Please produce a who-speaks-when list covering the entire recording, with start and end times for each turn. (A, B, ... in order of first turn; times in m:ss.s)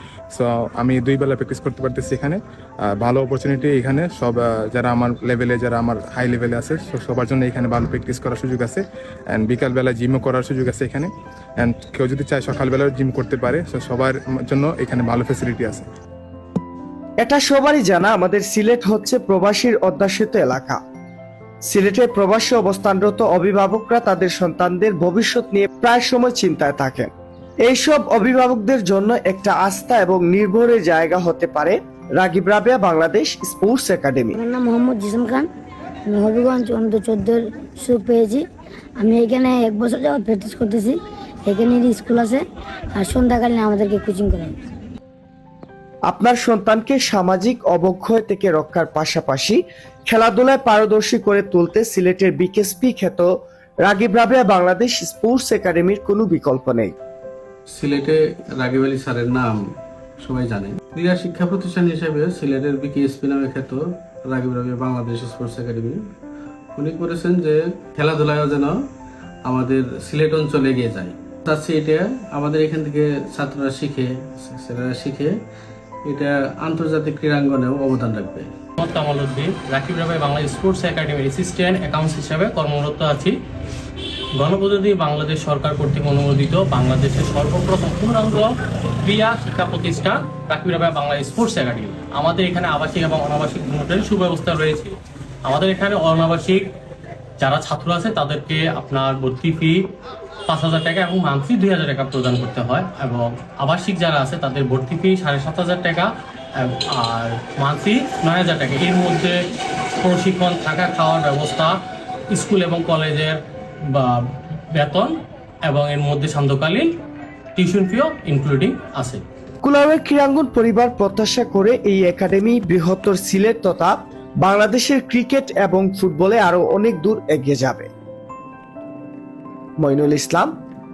0:00.3-0:15.8 A
0:17.2-0:20.8 B
0:21.6-0:27.1 B
0:27.6-0:34.4 B
0:34.4-0:35.4 C
0:36.1-0:38.4 C
0:39.0-0:42.4 C
0:43.0-0:44.5 C
0:46.1-0:53.3 B
0:53.8-0:56.9 B
0:57.7-0:59.6 D
1:00.2-1:06.0 D
1:06.7-1:08.8 D
1:09.5-1:15.4 D
1:16.0-1:18.5 D
1:18.8-1:23.4 E
1:24.4-1:36.7 E
1:37.4-1:39.9 E
1:40.5-1:49.4 E
1:50.0-1:51.8 E
1:52.3-1:53.4 E
1:53.9-1:55.1 E
1:55.6-1:56.9 E
1:57.5-1:59.2 E
1:59.6-2:07.9 B
2:09.8-2:10.5 B